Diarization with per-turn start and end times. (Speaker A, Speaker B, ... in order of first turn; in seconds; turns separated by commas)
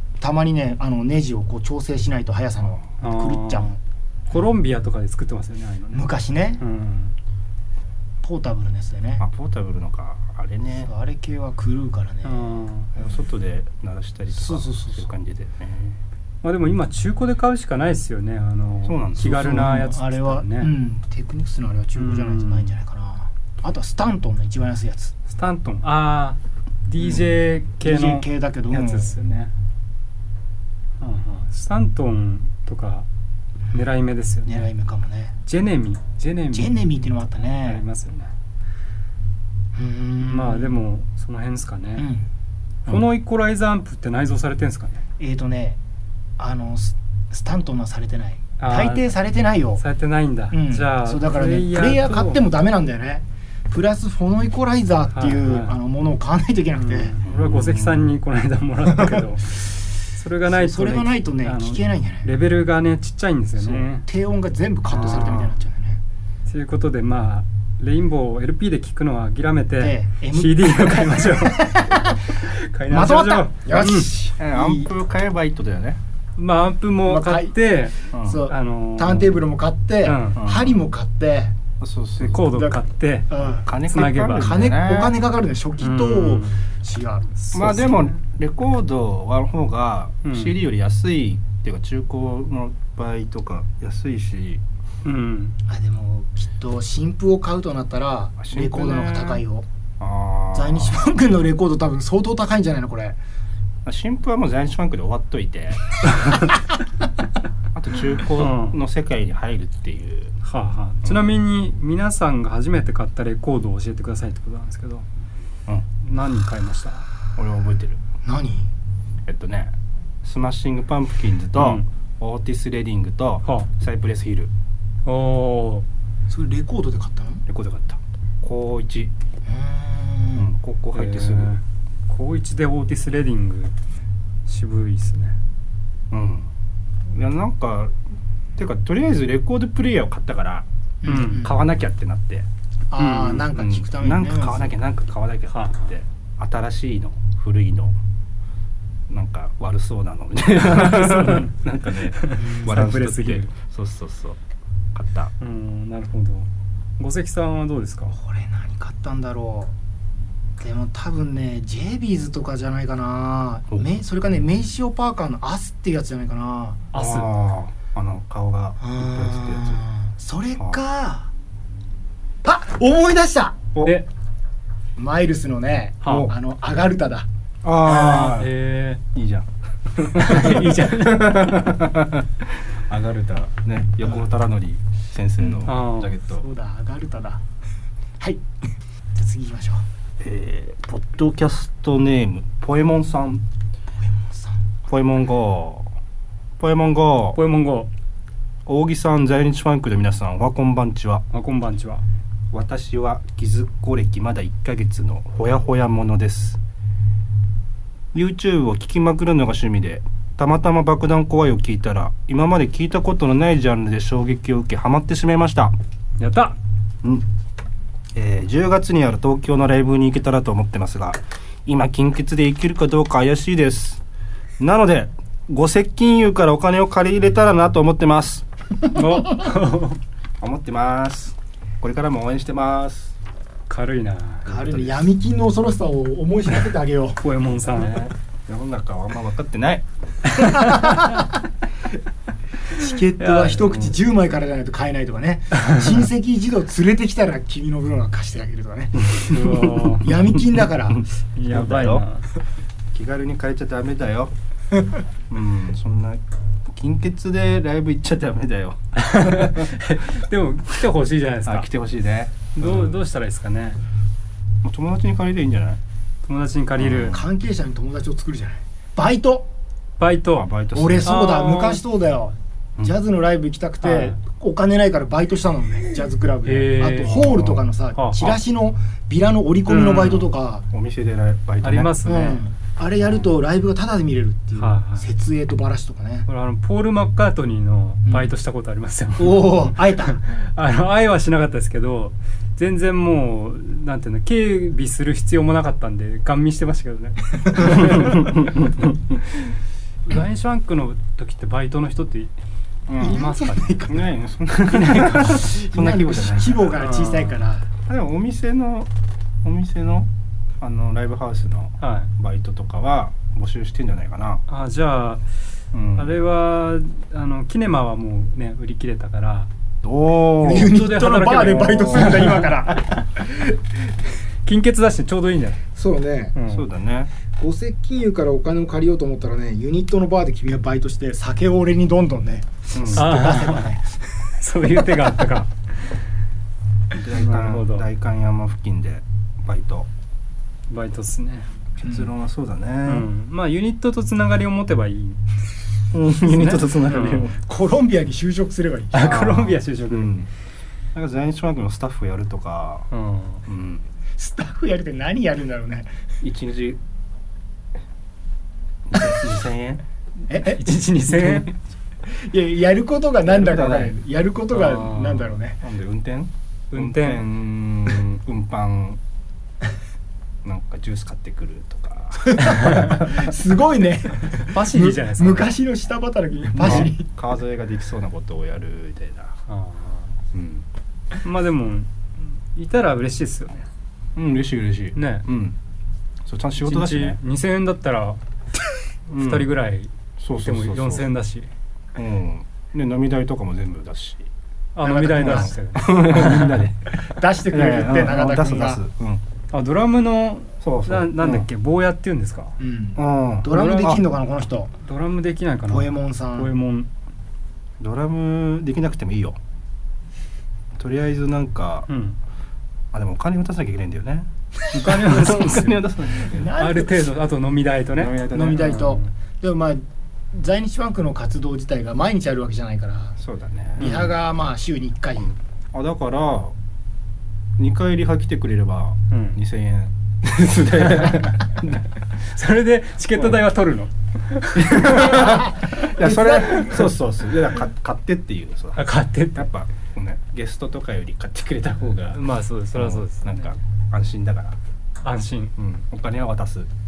Speaker A: 0.2-3.8, Speaker B: 3.0-3.7, Speaker B: 4.3-7.1, Speaker A: 5.9-6.6, Speaker A: 8.2-9.2, Speaker C: 9.2-10.9, Speaker A: 10.8-12.5, Speaker B: 12.2-12.9, Speaker C: 12.9-16.0, Speaker A: 14.3-15.1, Speaker B: 16.4-20.7, Speaker C: 18.8-19.7, Speaker A: 19.2-25.1, Speaker B: 21.9-22.7, Speaker B: 25.3-29.5, Speaker A: 27.8-29.2, Speaker B: 31.0-33.1, Speaker B: 33.7-34.7, Speaker A: 34.4-35.3, Speaker B: 35.5-36.8, Speaker A: 36.5-37.8, Speaker B: 37.4-38.3, Speaker A: 39.7-40.8, Speaker B: 40.2-42.1, Speaker A: 42.0-42.2, Speaker B: 42.9-45.0, Speaker A: 45.2-45.8, Speaker A: 46.4-49.8, Speaker B: 48.6-49.1, Speaker B: 49.8-52.4, Speaker A: 50.5-57.1, Speaker B: 55.1-55.8, Speaker B: 56.8-64.0, Speaker C: 57.2-58.0, Speaker A: 60.5-62.3, Speaker A: 63.6-66.0, Speaker B: 64.9-65.5, Speaker B: 66.5-71.9, Speaker A: 69.8-74.9, Speaker B: 72.4-74.1, Speaker C: 74.4-76.0, Speaker B: 76.4-79.4, Speaker A: 77.0-77.5, Speaker C: 78.1-78.4, Speaker A: 78.1-81.6, Speaker B: 80.0-80.4, Speaker C: 80.4-80.8, Speaker C: 81.8-82.4, Speaker B: 82.2-83.3, Speaker A: 82.4-83.7, Speaker C: 83.6-85.2, Speaker B: 83.9-84.5, Speaker A: 84.3-87.3, Speaker B: 85.8-86.6, Speaker B: 87.3-88.2, Speaker C: 87.5-94.6, Speaker B: 90.2-90.5, Speaker B: 95.0-95.6, Speaker A: 95.7-99.7, Speaker C: 98.4-99.4, Speaker C: 100.0-101.0, Speaker A: 100.5-103.2, Speaker C: 103.8-106.5, Speaker C: 107.7-110.3, Speaker B: 108.3-108.8, Speaker B: 110.4-115.0, Speaker C: 111.0-111.3, Speaker B: 116.0-117.1, Speaker C: 117.3-118.0, Speaker A: 118.2-118.7, Speaker C: 119.3-119.7, Speaker C: 120.2-124.5, Speaker B: 121.6-121.8, Speaker B: 125.0-125.8, Speaker A: 126.3-127.4, Speaker C: 127.5-129.1, Speaker A: 129.4-130.5, Speaker C: 130.3-131.5, Speaker B: 130.9-133.7, Speaker B: 134.5-135.3, Speaker C: 136.1-136.5, Speaker C: 137.1-137.9, Speaker C: 138.6-140.7, Speaker A: 141.0-141.6, Speaker B: 141.0-141.5, Speaker C: 141.3-142.5, Speaker A: 142.9-144.7, Speaker B: 143.0-143.5, Speaker C: 143.5-147.9, Speaker B: 145.5-145.9, Speaker C: 149.1-154.4, Speaker B: 150.6-151.5, Speaker B: 152.1-153.5, Speaker A: 152.4-152.7, Speaker C: 154.9-155.3, Speaker B: 155.4-158.2, Speaker A: 158.1-159.7, Speaker A: 160.6-166.8, Speaker B: 166.9-167.3, Speaker C: 166.9-169.8, Speaker A: 168.8-171.3, Speaker A: 172.4-173.6, Speaker B: 173.8-174.1, Speaker A: 174.9-177.3, Speaker B: 176.0-176.3, Speaker C: 176.1-176.3, Speaker C: 177.6-178.5, Speaker B: 177.8-179.0, Speaker C: 179.1-186.4, Speaker B: 180.1-181.6, Speaker A: 185.4-185.7, Speaker B: 185.7-186.1, Speaker A: 186.3-187.4, Speaker A: 188.2-188.4, Speaker A: 189.1-189.8, Speaker C: 190.2-193.4, Speaker A: 194.0-194.6, Speaker C: 194.9-195.9, Speaker C: 196.6-197.4, Speaker B: 197.3-197.9, Speaker C: 198.7-201.2, Speaker B: 201.3-202.0, Speaker C: 202.5-206.6, Speaker C: 208.1-215.7, Speaker B: 216.2-216.6, Speaker C: 218.1-224.0, Speaker C: 224.6-228.4, Speaker B: 228.9-230.0, Speaker C: 230.4-233.1, Speaker B: 233.7-234.5, Speaker A: 234.5-237.2, Speaker C: 234.5-235.1, Speaker B: 237.2-237.9, Speaker C: 237.8-239.8, Speaker B: 240.3-241.2, Speaker A: 240.6-241.3, Speaker A: 242.7-249.3, Speaker B: 243.2-243.7, Speaker C: 249.0-249.9, Speaker B: 249.3-250.1, Speaker A: 249.9-251.0, Speaker C: 250.9-252.1, Speaker B: 251.3-252.3, Speaker C: 252.9-254.3, Speaker C: 255.3-260.0, Speaker B: 258.9-261.7, Speaker C: 261.4-263.0, Speaker B: 262.6-263.8, Speaker C: 264.6-265.8, Speaker B: 266.2-267.1, Speaker C: 266.8-267.2, Speaker A: 267.1-269.5, Speaker B: 270.0-270.5, Speaker C: 270.4-271.2, Speaker A: 270.7-280.6, Speaker B: 271.0-271.8, Speaker B: 273.8-274.2, Speaker B: 276.4-277.4, Speaker C: 277.1-277.6, Speaker B: 277.9-278.4, Speaker B: 279.7-280.3, Speaker C: 280.7-281.9, Speaker B: 281.6-282.4, Speaker A: 282.0-286.3, Speaker B: 284.6-285.1, Speaker B: 286.3-298.3, Speaker A: 289.2-290.2, Speaker C: 297.9-299.2, Speaker B: 300.1-302.3, Speaker C: 302.9-303.2, Speaker B: 303.0-303.9, Speaker A: 303.0-304.1, Speaker C: 303.9-306.8, Speaker B: 304.7-305.4, Speaker A: 305.4-307.7, Speaker B: 306.8-307.4, Speaker C: 307.9-308.9, Speaker C: 309.4-310.1, Speaker C: 310.6-314.4, Speaker B: 311.8-312.1, Speaker B: 314.5-315.2, Speaker C: 315.7-316.2, Speaker B: 315.9-319.5, Speaker C: 319.8-320.7, Speaker A: 320.4-323.6, Speaker B: 320.5-322.5, Speaker C: 321.7-322.3, Speaker B: 324.4-325.6, Speaker A: 325.7-326.3, Speaker B: 326.3-326.6, Speaker C: 326.5-327.1, Speaker A: 327.4-334.1, Speaker C: 332.7-333.1, Speaker B: 332.9-333.7, Speaker B: 334.4-335.5, Speaker C: 336.9-339.9, Speaker B: 337.1-337.9, Speaker B: 340.7-341.5, Speaker C: 341.8-343.1, Speaker A: 341.8-342.1, Speaker B: 342.8-345.2, Speaker C: 345.9-347.4, Speaker B: 346.2-347.4, Speaker A: 347.4-349.1, Speaker B: 348.9-350.1, Speaker C: 349.0-350.3, Speaker C: 350.9-352.9, Speaker B: 352.9-353.4, Speaker C: 353.5-353.8, Speaker A: 354.2-355.9, Speaker C: 356.2-356.8, Speaker C: 358.9-359.8, Speaker A: 360.3-360.7, Speaker B: 360.4-361.5, Speaker C: 361.1-361.5, Speaker A: 362.1-365.6, Speaker C: 363.2-363.9, Speaker B: 364.5-365.3, Speaker C: 365.6-369.0, Speaker B: 366.7-367.2, Speaker C: 370.4-373.1, Speaker A: 372.3-377.1, Speaker B: 372.6-372.9, Speaker B: 374.4-375.5, Speaker C: 376.6-379.3, Speaker B: 376.6-376.9, Speaker B: 379.5-380.1, Speaker C: 380.3-380.6, Speaker B: 381.2-383.7, Speaker C: 384.1-385.6, Speaker B: 384.9-385.2, Speaker C: 386.2-387.2, Speaker B: 386.6-388.2, Speaker C: 389.1-389.5, Speaker B: 389.1-391.5, Speaker C: 390.2-391.1, Speaker C: 391.9-394.3, Speaker B: 394.7-396.6, Speaker A: 394.8-395.5, Speaker C: 395.2-399.2, Speaker A: 397.0-398.8, Speaker B: 399.5-402.6, Speaker C: 400.6-401.4, Speaker A: 402.6-404.7, Speaker C: 402.9-404.0, Speaker B: 403.5-404.0, Speaker B: 404.8-406.9, Speaker A: 405.7-406.5, Speaker C: 407.8-409.4, Speaker C: 410.8-411.9, Speaker B: 411.9-412.2, Speaker C: 412.9-414.3, Speaker B: 414.7-415.8, Speaker C: 414.8-416.5, Speaker A: 416.3-417.1, Speaker B: 416.6-419.1, Speaker C: 418.0-418.8, Speaker A: 418.3-423.2, Speaker C: 423.2-424.0, Speaker A: 423.8-425.3, Speaker B: 423.8-424.1, Speaker C: 425.2-426.5, Speaker C: 427.6-431.9, Speaker B: 429.1-429.4, Speaker B: 430.9-431.3, Speaker B: 432.2-435.2, Speaker C: 434.6-442.2, Speaker A: 435.1-436.9, Speaker B: 438.8-439.5, Speaker B: 442.1-443.5, Speaker C: 442.7-444.6, Speaker B: 445.0-445.5, Speaker C: 445.6-446.7